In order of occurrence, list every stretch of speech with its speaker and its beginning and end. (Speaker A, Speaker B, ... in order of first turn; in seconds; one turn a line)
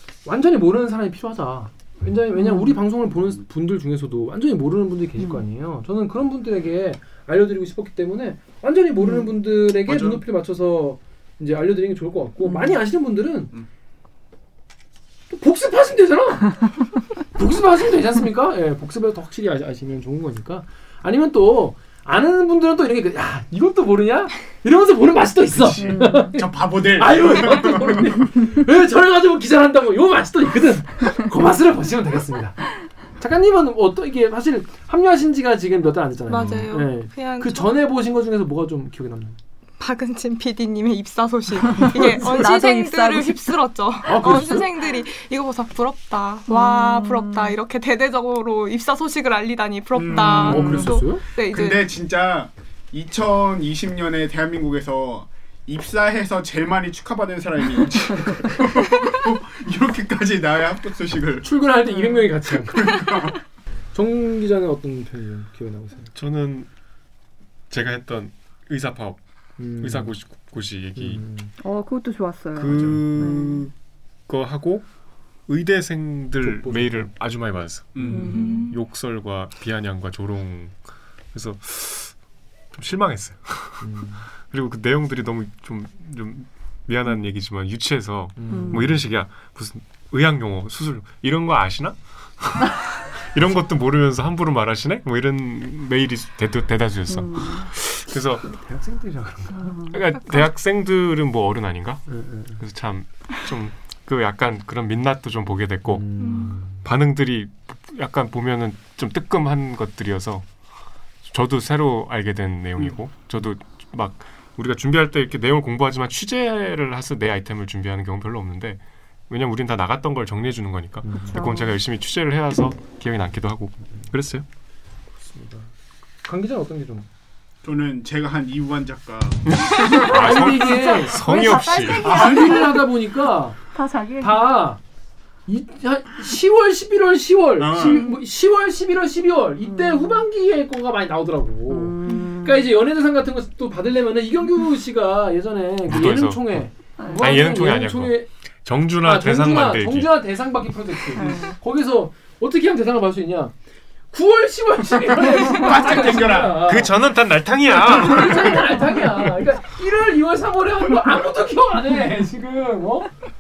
Speaker A: 0.2-13.5
Speaker B: 2.4-2.8
Speaker B: 5.2-5.4
Speaker B: 9.0-9.3
Speaker C: 9.9-10.2
Speaker B: 12.4-12.8
Speaker A: 15.3-16.8
Speaker A: 17.3-32.7
Speaker C: 25.6-28.3
Speaker B: 25.8-26.3
Speaker A: 33.2-39.4
Speaker D: 36.3-37.8
Speaker D: 39.8-51.9
Speaker A: 41.8-42.2
Speaker B: 42.2-43.6
Speaker A: 44.0-44.7
Speaker B: 46.5-47.5
Speaker C: 49.9-61.5
Speaker A: 50.2-51.2
Speaker B: 50.2-50.5
Speaker A: 61.4-63.1
Speaker B: 61.9-62.3
Speaker C: 62.6-63.4
Speaker A: 63.9-66.1
Speaker E: 66.2-66.7
Speaker E: 67.7-69.2
Speaker A: 69.6-70.2
Speaker E: 69.8-71.2
Speaker A: 71.0-71.5
Speaker B: 71.6-73.7
Speaker E: 72.5-73.7
Speaker C: 72.7-73.1
Speaker E: 74.3-74.9
Speaker E: 75.5-80.8
Speaker A: 76.4-77.1
Speaker C: 78.0-78.5
Speaker A: 78.0-78.4
Speaker B: 78.1-78.7
Speaker D: 78.3-78.8
Speaker E: 81.3-82.1
Speaker E: 82.7-83.9
Speaker A: 83.8-84.2
Speaker E: 84.5-98.5
Speaker A: 88.4-89.0
Speaker B: 88.5-88.8
Speaker B: 97.1-97.7
Speaker A: 98.4-99.8
Speaker B: 99.6-100.0
Speaker E: 99.9-106.1
Speaker A: 102.1-102.6
Speaker A: 105.9-106.9
Speaker D: 106.2-106.6
Speaker E: 106.7-110.5
Speaker E: 111.2-124.5
Speaker A: 121.0-121.4
Speaker B: 121.3-121.8
Speaker A: 125.2-125.7
Speaker A: 126.2-127.1
Speaker C: 127.6-130.1
Speaker E: 129.5-132.3
Speaker A: 129.8-133.6
Speaker B: 130.5-132.8
Speaker C: 132.0-132.6
Speaker B: 133.7-134.6
Speaker A: 134.2-134.8
Speaker A: 135.5-148.3
Speaker C: 137.6-138.1
Speaker B: 137.8-138.2
Speaker B: 139.7-140.2
Speaker B: 141.7-142.7
Speaker D: 142.1-142.3
Speaker E: 145.9-150.2
Speaker B: 147.0-147.3
Speaker A: 149.0-153.5
Speaker B: 151.2-151.6
Speaker A: 154.1-157.0
Speaker C: 155.2-156.8
Speaker E: 156.6-158.9
Speaker A: 157.7-163.1